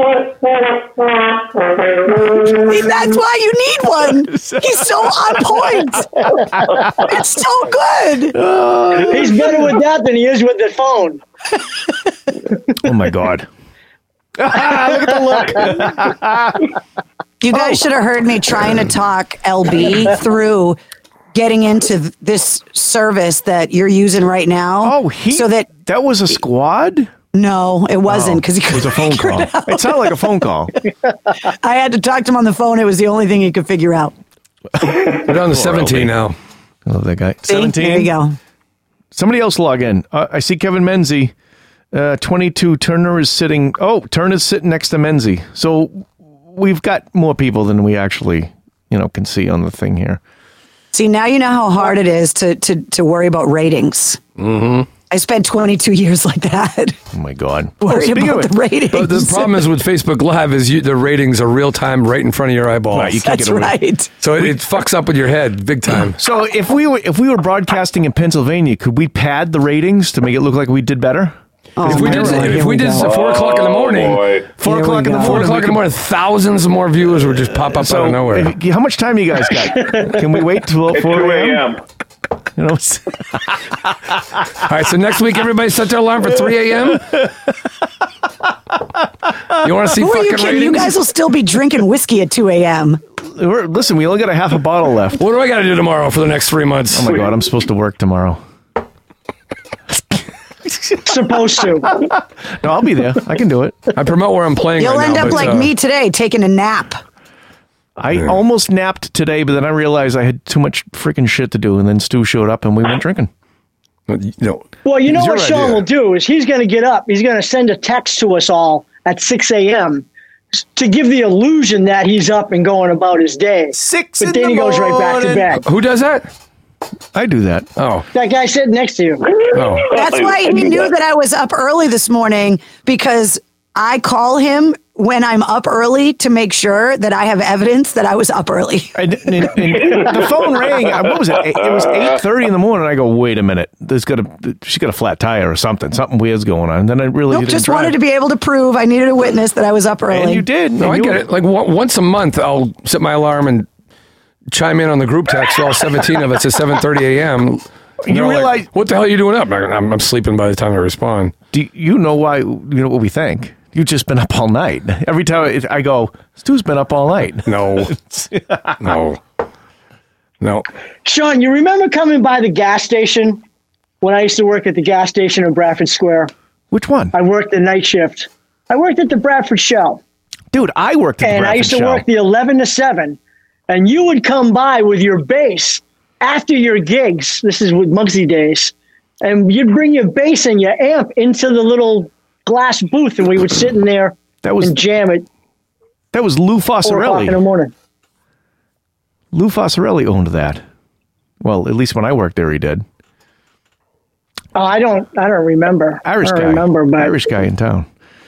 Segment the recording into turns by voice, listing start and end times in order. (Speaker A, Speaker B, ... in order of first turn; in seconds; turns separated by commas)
Speaker A: 2.4-8.4, Speaker B: 4.3-5.6, Speaker B: 8.3-9.7, Speaker C: 9.0-11.2, Speaker B: 12.7-13.5, Speaker B: 14.4-16.7, Speaker A: 17.4-20.8, Speaker B: 17.5-17.9, Speaker A: 21.3-25.7, Speaker B: 24.8-27.1, Speaker A: 27.3-30.1, Speaker B: 28.1-30.7, Speaker A: 31.4-34.1, Speaker B: 34.8-36.1, Speaker D: 35.1-36.4, Speaker B: 36.9-38.1, Speaker A: 37.5-38.4, Speaker B: 39.1-41.3, Speaker B: 41.9-50.2, Speaker A: 50.9-54.2, Speaker D: 54.4-54.9, Speaker A: 55.1-57.0, Speaker B: 57.1-58.5, Speaker A: 57.8-59.6, Speaker D: 58.9-63.2, Speaker B: 62.9-63.8, Speaker A: 63.2-64.1, Speaker D: 64.2-66.2, Speaker B: 66.2-72.7, Speaker A: 71.8-73.1, Speaker D: 71.8-74.4, Speaker E: 73.0-74.5, Speaker B: 74.6-75.8, Speaker A: 74.6-75.5, Speaker D: 75.2-78.5, Speaker B: 77.7-81.7, Speaker E: 80.9-81.8, Speaker B: 82.6-84.2, Speaker D: 84.6-87.2, Speaker D: 89.5-91.0, Speaker A: 90.0-93.0, Speaker B: 93.3-95.2, Speaker D: 95.2-97.2, Speaker B: 96.9-98.4, Speaker B: 100.7-101.0, Speaker C: 101.0-102.0, Speaker B: 102.1-103.8, Speaker D: 104.0-105.7, Speaker A: 104.8-107.0, Speaker B: 108.0-113.3, Speaker D: 114.1-114.7, Speaker C: 114.8-125.6, Speaker B: 115.1-115.8, Speaker B: 123.7-125.6, Speaker D: 125.6-126.3, Speaker B: 127.1-127.7, Speaker D: 127.8-128.1, Speaker C: 128.1-129.3, Speaker E: 129.4-130.9, Speaker D: 129.5-129.9, Speaker A: 129.9-139.0, Speaker B: 138.9-148.0, Speaker A: 147.3-150.5, Speaker B: 150.1-151.3, Speaker D: 150.8-153.7, Speaker D: 154.5-161.3, Speaker B: 158.0-158.7, Speaker B: 161.5-168.8, Speaker D: 167.5-167.9, Speaker D: 168.8-169.2, Speaker C: 171.1-173.4, Speaker C: 174.0-176.3, Speaker B: 176.7-177.2, Speaker C: 177.1-180.0, Speaker B: 180.5-182.1, Speaker C: 181.2-195.3, Speaker B: 194.4-194.8, Speaker B: 196.1-197.4, Speaker C: 196.8-197.7, Speaker B: 199.3-200.6, Speaker B: 201.4-202.8, Speaker C: 204.6-207.2, Speaker B: 206.0-207.9